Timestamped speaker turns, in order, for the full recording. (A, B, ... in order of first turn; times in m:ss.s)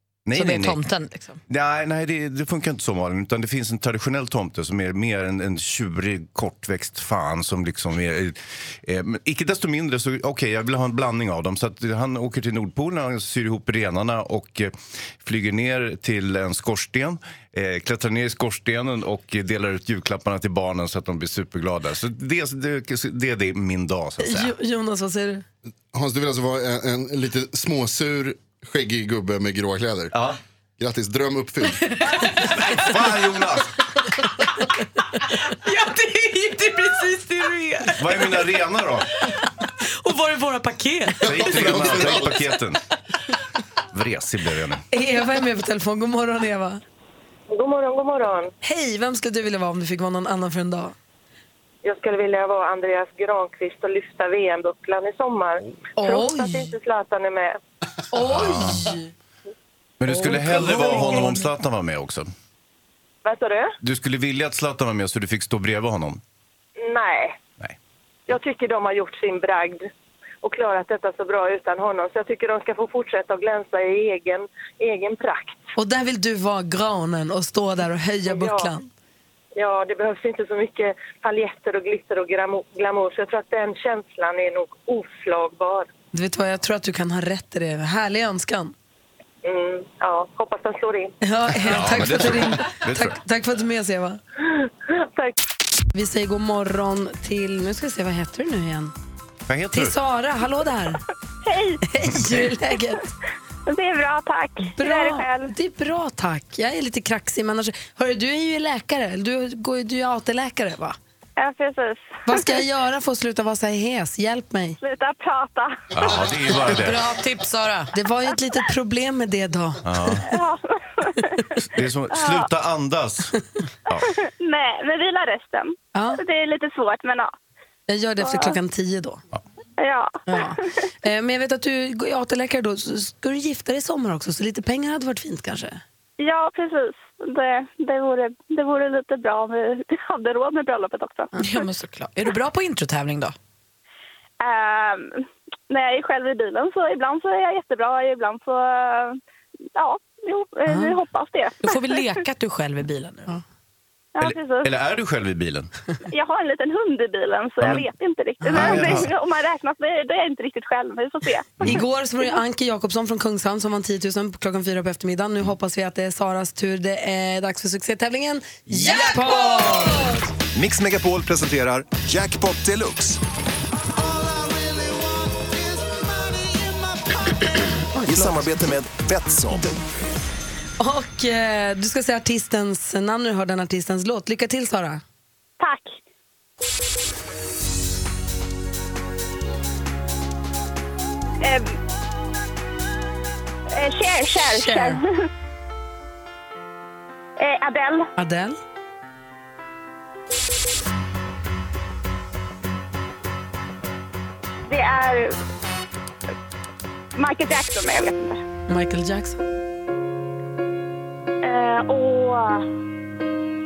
0:00.2-0:00.8 A
0:00.3-0:01.4 B
0:01.5-0:24.5 A
0:24.2-0:25.4 C
0:25.9-0:30.1 D
0:30.1-0:30.4 A
0:30.8-0:31.9 D
0:32.5-0:33.7 A
0:35.5-0:38.0 B
0:38.0-0:39.1 A
0:39.8-0:41.6 B
0:41.2-0:42.4 D
0:41.2-0:42.8 A
0:43.9-0:44.8 A
0:44.9-0:46.8 C
0:47.5-0:48.5 E
0:48.6-0:50.9 C
0:51.8-0:57.6 E
0:56.0-0:56.7 C
0:58.1-0:59.1 C
0:58.2-0:58.9 A
1:00.0-1:02.3 A
1:00.2-1:01.3 C
1:03.2-1:03.7 E
1:03.8-1:06.2 A
1:06.8-1:07.4 E
1:08.3-1:09.9 E
1:10.4-1:15.6 E
1:15.8-1:18.9 C
1:18.3-1:18.7 E
1:19.6-1:25.9 E
1:26.1-1:28.7 C
1:29.4-1:31.1 E
1:31.2-1:34.2 C
1:31.6-1:33.2 A
1:34.4-1:35.3 E
1:35.9-1:38.9 C
1:39.5-1:40.0 A
1:39.7-1:41.0 C
1:41.4-1:41.8 F
1:41.9-1:43.0 C
1:43.7-1:45.5 F
1:44.8-1:51.0 C
1:51.4-1:52.4 F
1:52.3-1:54.8 C
1:54.8-1:56.3 F
1:55.9-1:57.0 A
1:56.7-1:57.9 B
1:57.9-1:59.8 C
1:59.8-2:00.2 A
2:00.3-2:01.4 F
2:01.6-2:03.3 A
2:02.1-2:02.5 F
2:04.2-2:07.3 F
2:05.9-2:06.2 C
2:07.9-2:09.2 C
2:08.2-2:08.6 F
2:09.8-2:10.7 F
2:10.3-2:15.8 C
2:16.2-2:21.3 F
2:21.4-2:23.3 B
2:24.4-2:29.2 F
2:29.7-2:32.0 F
2:30.7-2:30.9 C
2:31.6-2:33.3 B
2:34.1-2:34.7 F
2:34.2-2:35.7 A
2:36.1-2:41.8 F
2:37.6-2:37.9 A
2:38.4-2:39.0 C
2:38.5-2:39.1 A
2:41.6-2:50.2 C
2:48.7-2:49.0 G
2:50.5-2:53.2 G
2:58.0-2:59.8 G
3:00.8-3:05.0 C
3:05.6-3:06.0 F
3:11.4-3:11.8 F
3:13.7-3:15.0 F
3:14.5-3:15.0 C
3:17.4-3:18.1 F
3:18.2-3:18.6 C
3:24.7-3:25.4 F
3:27.2-3:28.4 F
3:28.7-3:29.4 C
3:31.4-3:32.6 F